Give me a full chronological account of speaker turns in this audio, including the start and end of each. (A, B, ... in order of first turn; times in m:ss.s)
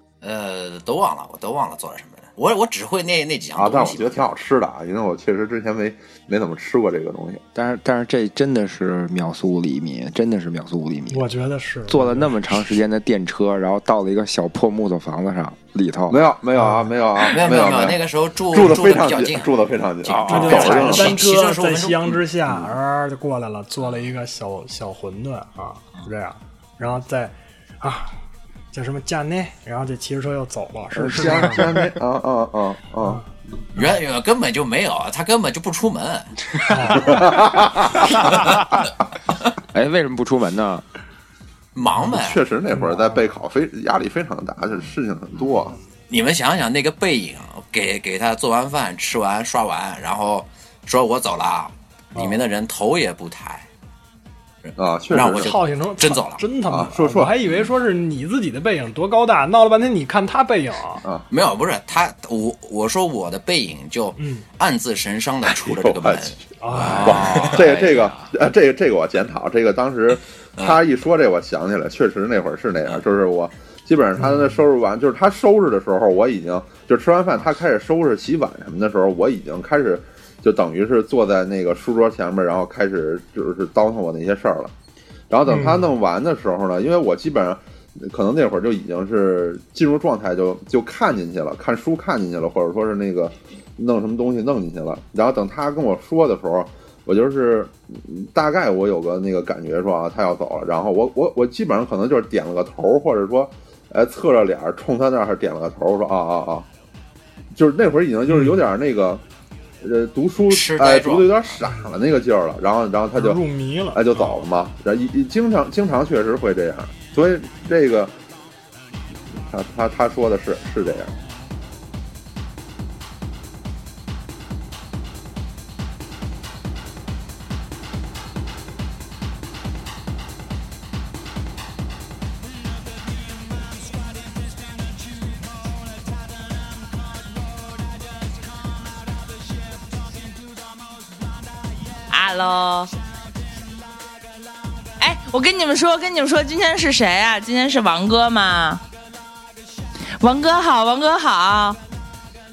0:00.2-0:04.2 A
0:03.6-0:07.4 B
0:07.6-0:11.2 C
0:11.1-0:12.6 D
0:11.9-0:16.2 C
0:16.1-0:18.0 B
0:16.6-0:16.9 D
0:17.3-0:22.2 A
0:18.5-0:21.1 B
0:20.0-0:21.2 C
0:20.3-0:28.2 D
0:28.7-0:31.8 D
0:31.0-0:33.2 B
0:33.0-0:33.3 D
0:33.8-0:37.1 A
0:36.7-0:37.3 D
0:37.2-0:37.8 B
0:38.2-0:38.9 A
0:39.7-0:40.8 C
0:41.8-0:42.4 A
0:42.1-0:45.8 B
0:42.8-0:43.2 D
0:46.1-0:53.7 A
0:52.2-0:52.4 D
0:54.6-0:56.4 A
0:54.8-0:55.5 B
0:55.3-1:01.0 D
0:56.7-0:57.4 B
1:01.3-1:08.3 A
1:04.2-1:04.5 D
1:05.5-1:06.4 B
1:06.6-1:07.6 D
1:07.0-1:24.7 B
1:14.2-1:14.6 D
1:25.3-1:46.7 B
1:25.5-1:25.8 D
1:47.5-1:49.2 B
1:49.8-1:53.4 B
1:50.5-1:51.6 A
1:53.1-1:54.4 D
1:53.9-1:58.1 B
1:59.5-2:01.1 B
2:22.1-2:22.9 E
2:25.0-2:28.8 E
2:30.2-2:31.8 E